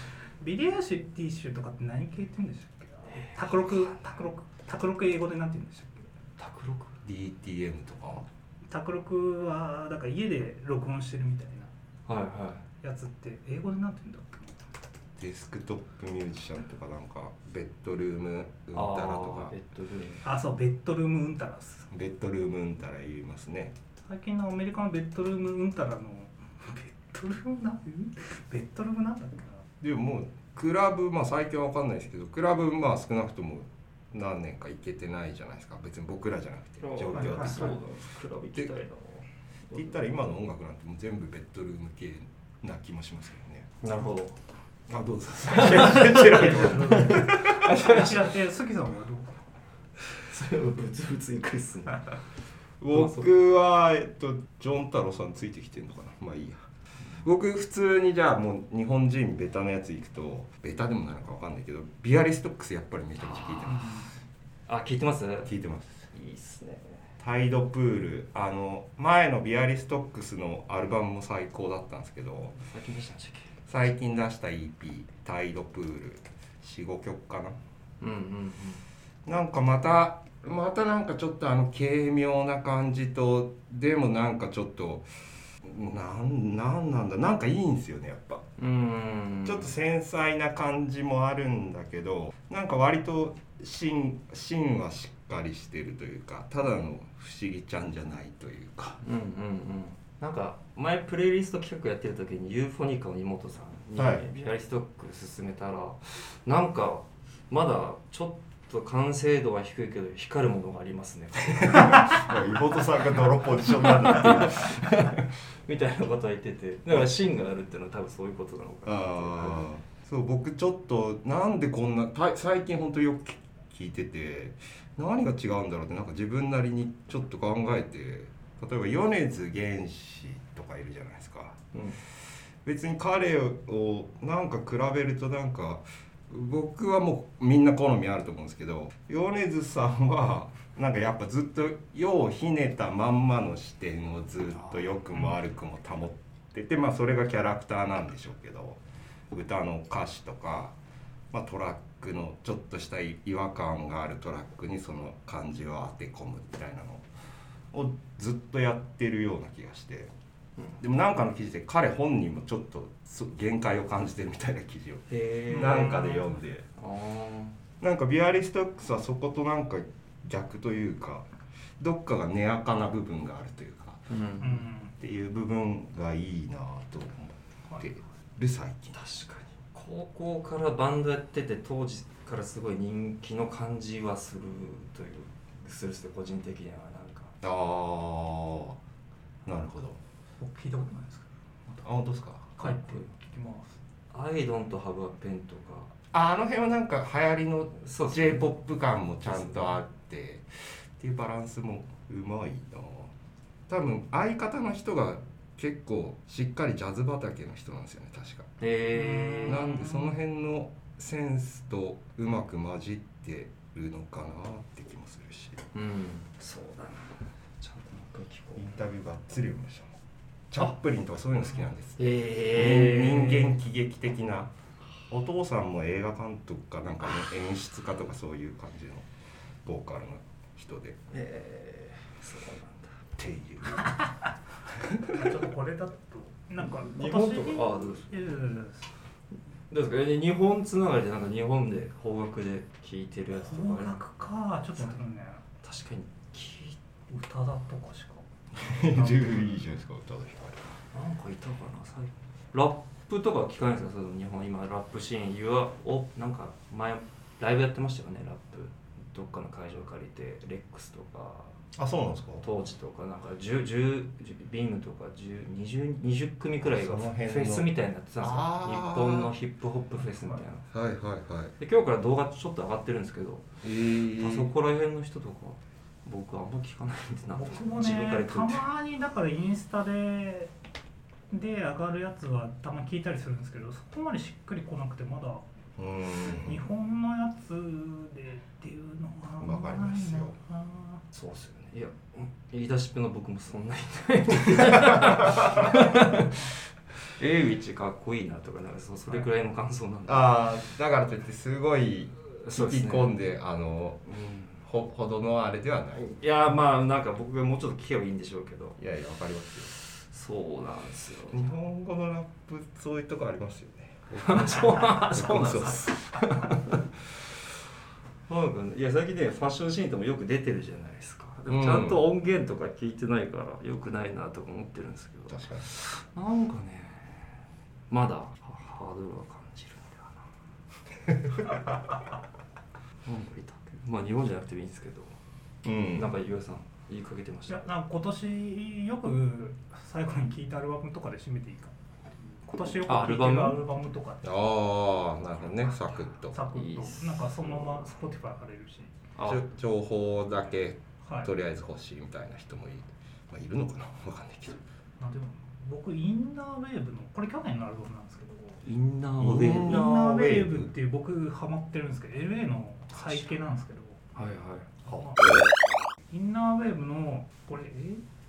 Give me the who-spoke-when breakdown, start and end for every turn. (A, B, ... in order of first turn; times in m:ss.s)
0:00.4-0:06.1 A
0:03.1-0:03.8 B
0:06.4-0:07.0 B
0:07.0-0:08.2 C
0:08.7-0:11.7 A
0:12.1-0:12.6 B
0:12.8-0:14.6 A
0:15.2-0:19.5 C
0:18.7-0:20.2 B
0:20.2-0:21.9 A
0:21.9-0:23.7 C
0:24.0-0:29.6 A
0:29.8-0:37.7 C
0:36.8-0:39.9 B
0:37.1-0:37.7 A
0:39.7-0:43.7 C
0:43.8-0:44.4 B
0:44.9-0:47.8 C
0:45.4-0:48.3 B
0:46.2-0:49.3 A
0:50.1-0:52.1 B
0:52.8-0:56.6 C
0:52.9-0:53.3 B
0:57.2-1:04.0 C
1:03.2-1:03.9 B
1:03.7-1:04.1 A
1:04.7-1:05.5 B
1:05.4-1:06.1 C
1:06.1-1:07.0 B
1:07.2-1:12.6 C
1:12.6-1:13.5 B
1:13.7-1:17.6 C
1:18.0-1:18.8 B
1:19.2-1:25.1 C
1:25.6-1:28.5 C
1:28.6-1:29.7 B
1:29.4-1:39.0 C
1:39.0-1:52.3 B
1:44.0-1:44.2 C
1:51.6-1:55.0 C
1:53.8-1:59.7 B
1:58.8-2:11.6 C
2:12.6-2:30.7 C
2:31.3-2:37.0 C
2:37.7-2:40.1 C
2:40.8-2:46.6 C
2:45.1-2:47.6 B
2:45.7-2:46.0 A
2:47.8-2:51.3 C
2:51.8-2:54.2 C
2:54.1-2:54.6 B
2:54.4-2:54.9 A
2:55.0-2:59.0 C
2:58.9-3:07.3 B
3:07.4-3:08.8 C
3:09.4-3:10.0 C
3:10.4-3:11.9 A
3:11.8-3:12.4 C
3:12.4-3:13.8 A
3:12.6-3:13.1 B
3:14.1-3:15.9 B
3:16.1-3:23.1 C
3:17.8-3:18.5 B
3:19.2-3:19.8 B
3:23.7-3:28.6 C
3:28.6-3:30.1 B
3:29.0-3:29.6 A
3:29.4-3:35.6 C
3:35.7-3:38.7 B
3:38.6-3:40.0 C
3:40.5-3:44.5 C
3:42.0-3:43.6 B
3:45.1-3:49.1 C
3:49.6-3:51.0 C
3:51.1-3:53.0 B
3:53.2-3:54.0 C
3:55.1-3:58.9 A
3:56.6-3:58.0 B
3:59.7-4:04.0 B
4:03.3-4:05.4 A
4:05.6-4:06.8 B
4:07.1-4:09.6 A
4:08.6-4:10.7 C
4:10.9-4:21.5 B
4:21.7-4:22.4 C
4:22.4-4:30.6 B
4:26.6-4:29.3 C
4:30.7-4:31.5 C
4:31.6-4:33.5 B
4:33.6-4:34.5 C
4:34.2-4:38.6 B
4:37.3-4:40.5 A
4:41.3-4:45.4 A
4:45.8-4:46.6 C
4:46.3-4:51.0 A
4:49.4-4:50.4 C
4:51.1-4:56.5 B
4:55.2-4:55.6 C
4:57.2-5:00.4 B
5:00.1-5:04.0 C
5:02.4-5:03.1 B
5:04.0-5:04.6 B
5:04.6-5:06.2 C
5:06.0-5:08.8 B
5:08.8-5:09.8 C
5:09.9-5:11.5 B
5:11.3-5:16.0 C
5:14.2-5:16.8 B
5:18.3-5:27.4 B
5:21.5-5:22.0 C
5:25.3-5:25.7 C
5:27.9-5:30.3 B
5:33.0-5:35.2 B
5:35.6-5:36.1 C
5:35.9-5:37.7 B
5:37.5-5:41.7 A
5:42.4-5:44.2 A
5:42.8-5:43.6 B
5:44.2-5:46.4 C
5:46.1-5:49.0 A
5:46.5-5:47.9 B
5:49.2-5:49.4 B
5:49.2-5:54.6 C
5:51.0-5:51.3 A
5:55.0-5:58.6 A
5:58.6-5:59.8 B
5:59.2-6:00.7 C
5:59.5-6:04.0 A
6:04.1-6:04.7 B
6:04.8-6:05.2 A
6:04.9-6:05.1 C
6:06.1-6:08.0 A